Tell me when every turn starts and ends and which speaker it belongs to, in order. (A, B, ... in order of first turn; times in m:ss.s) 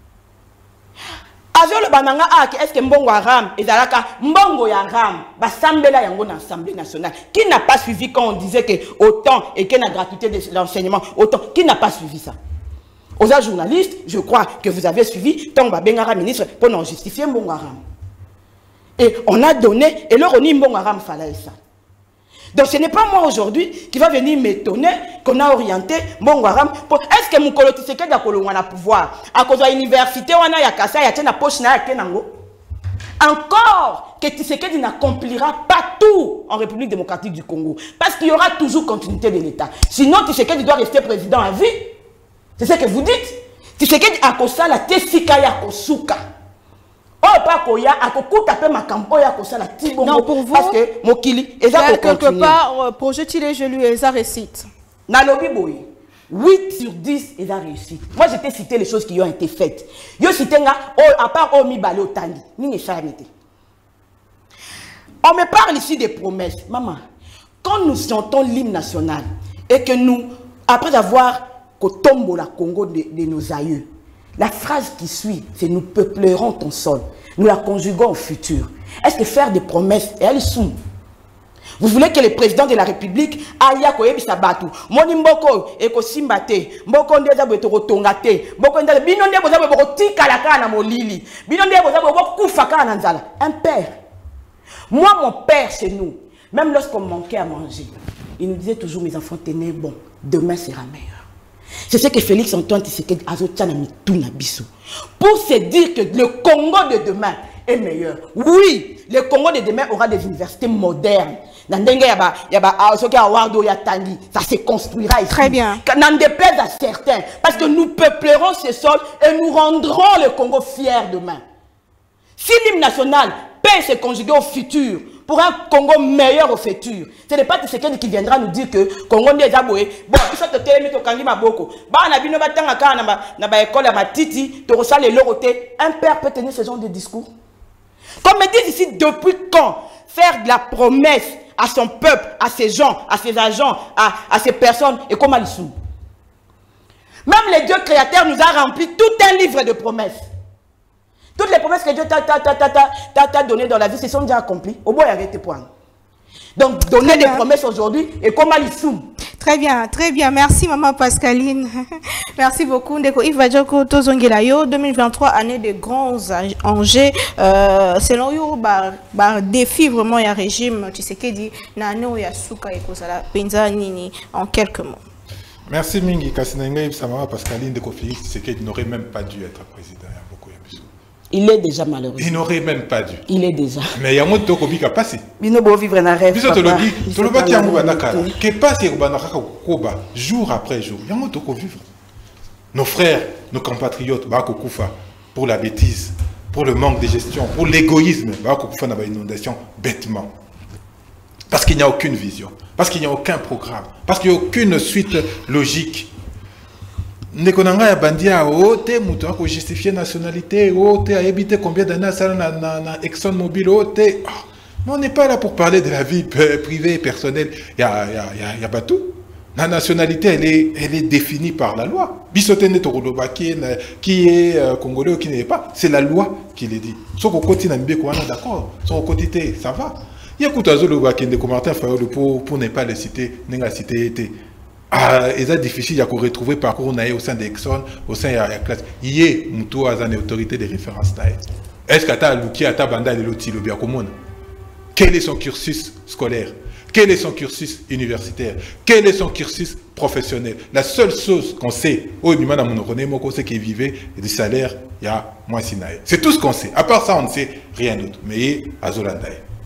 0:01.5-0:12.4 A
0:13.2-0:17.8 A
0:19.0-0:21.6 A
0:22.5-0:32.3 A
0:33.2-0:41.9 A
0:42.6-0:46.2 A
0:47.2-0:52.6 A
0:50.0-0:50.8 B
0:51.7-0:54.6 B
0:55.1-1:03.3 A
1:05.2-1:07.0 A
1:07.6-1:20.8 A
1:21.8-1:33.9 A
1:34.9-1:41.2 A
1:41.9-1:44.7 A
1:45.2-2:01.4 A
1:55.3-1:55.8 B
2:02.4-2:17.3 A
2:18.2-2:25.7 A
2:27.2-2:30.2 A
2:31.4-2:35.7 A
2:36.6-2:39.1 A
2:37.0-2:37.4 B
2:39.4-2:41.8 B
2:42.4-2:55.0 B
2:55.7-3:00.9 C
3:01.3-3:02.4 A
3:02.2-3:03.2 C
3:03.3-3:04.0 A
3:03.9-3:05.2 C
3:05.4-3:08.3 A
3:06.3-3:11.8 C
3:12.7-3:20.3 C
3:21.5-3:26.1 C
3:27.3-3:54.3 C
3:54.9-4:04.1 C
4:04.9-4:19.4 C